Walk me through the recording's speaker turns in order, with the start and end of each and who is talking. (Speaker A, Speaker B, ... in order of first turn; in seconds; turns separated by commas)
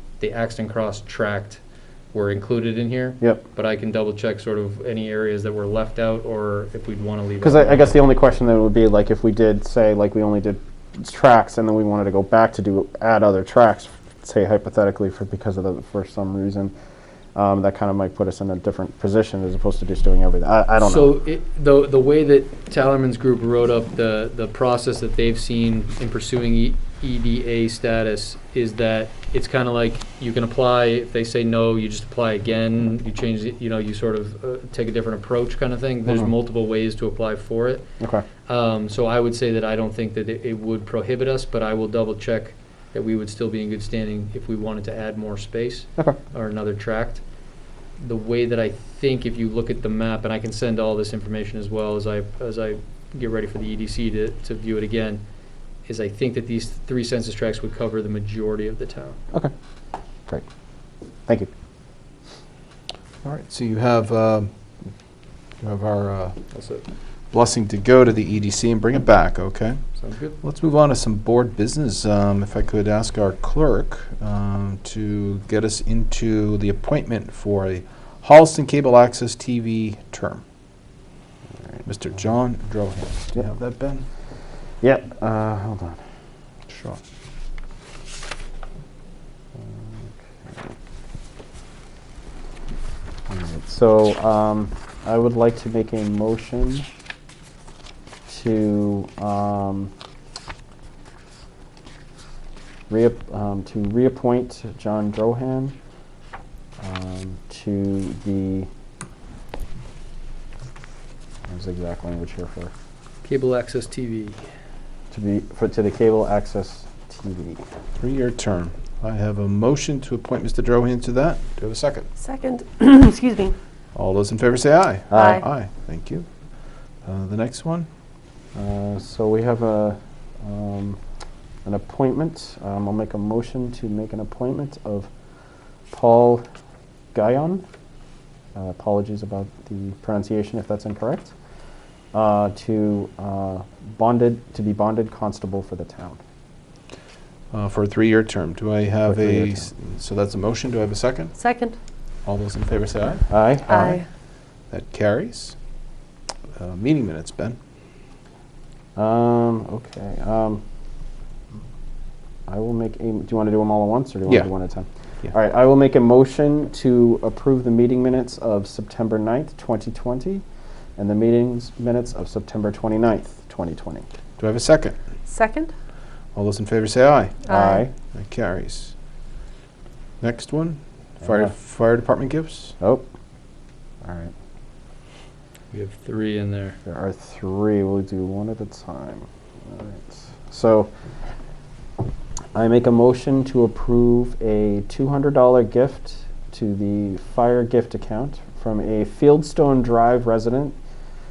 Speaker A: 0.2-1.6, Speaker A: 2.1-8.0, Speaker B: 7.4-16.7, Speaker B: 17.4-21.1, Speaker A: 20.8-37.9, Speaker B: 38.0-38.2, Speaker A: 38.5-47.2, Speaker A: 48.0-55.2, Speaker A: 55.9-59.2, Speaker C: 63.2-64.5, Speaker C: 65.6-66.4, Speaker A: 66.5-66.8, Speaker C: 67.3-69.8, Speaker A: 70.0-70.4, Speaker C: 70.4-80.4, Speaker C: 81.9-84.1, Speaker B: 84.8-86.0, Speaker C: 86.7-87.0, Speaker B: 89.6-90.6, Speaker B: 93.3-96.9, Speaker B: 98.3-99.9, Speaker B: 102.9-105.8, Speaker B: 106.8-108.7, Speaker B: 111.5-112.7, Speaker A: 113.2-114.4, Speaker B: 115.1-117.6, Speaker C: 118.0-122.1, Speaker D: 122.2-123.5, Speaker C: 124.0-126.3, Speaker B: 125.1-125.5, Speaker D: 125.1-125.4, Speaker C: 127.0-127.9, Speaker B: 128.6-131.0, Speaker B: 131.7-135.1, Speaker B: 135.9-136.4, Speaker B: 137.1-137.7, Speaker B: 138.6-141.3, Speaker B: 142.1-146.2, Speaker C: 147.5-151.3, Speaker B: 149.1-149.7, Speaker D: 151.4-151.8, Speaker C: 152.3-154.0, Speaker B: 153.3-153.9, Speaker D: 153.7-154.1, Speaker C: 154.7-155.6, Speaker C: 156.5-157.6, Speaker B: 159.0-160.6, Speaker B: 162.5-170.4, Speaker B: 171.0-174.1, Speaker C: 174.4-175.0, Speaker D: 175.3-175.7, Speaker C: 176.3-177.5, Speaker D: 177.5-177.8, Speaker B: 177.5-177.9, Speaker C: 178.1-178.9, Speaker C: 180.2-182.8, Speaker B: 181.2-181.5, Speaker B: 182.8-183.1, Speaker B: 184.0-184.3, Speaker A: 185.7-186.8, Speaker B: 186.8-190.9, Speaker B: 192.5-200.8